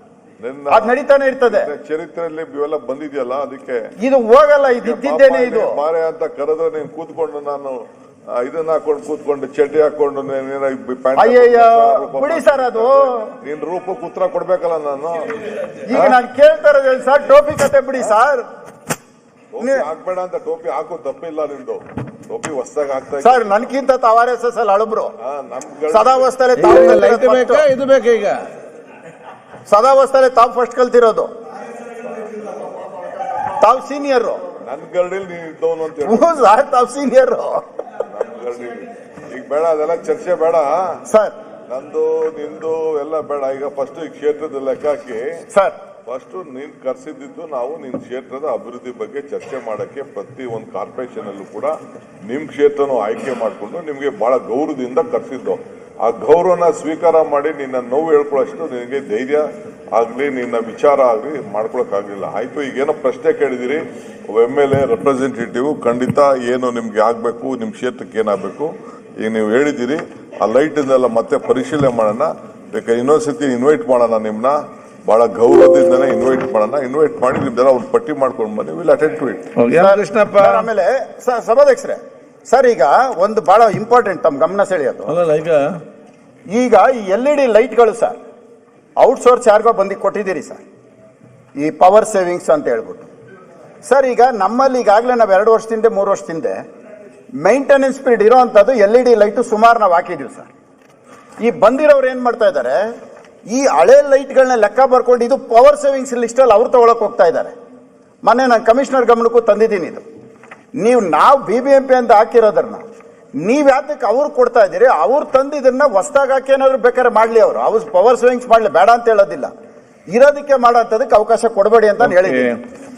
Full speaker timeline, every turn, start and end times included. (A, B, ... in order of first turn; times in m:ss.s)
0:00.4-0:03.9 A
0:00.7-0:01.7 B
0:04.0-0:05.8 B
0:04.7-0:07.8 A
0:08.4-0:15.3 A
0:11.2-0:13.3 B
0:15.9-0:18.4 B
0:19.5-0:23.7 A
0:19.6-0:19.9 B
0:23.2-0:25.1 B
0:25.2-0:26.4 A
0:25.9-0:27.7 B
0:26.6-0:28.4 C
0:29.7-0:31.3 B
0:33.5-0:34.4 B
0:34.6-0:36.5 A
0:36.0-0:37.6 B
0:38.0-0:41.0 A
0:41.1-0:41.4 B
0:41.7-0:45.4 A
0:46.1-0:51.8 A
0:52.3-1:19.4 A
1:19.6-1:20.7 C
1:19.8-1:25.2 B
1:25.1-1:25.8 C
1:26.5-1:28.2 B
1:29.0-1:30.6 B
1:31.6-1:33.1 B
1:33.9-1:36.6 B
1:37.4-1:40.5 B
1:41.4-1:42.8 B
1:43.5-1:47.5 B
1:48.2-1:50.0 B
1:50.8-1:52.8 B
1:53.4-1:59.5 B
2:00.1-2:02.6 B
2:02.0-2:02.6 C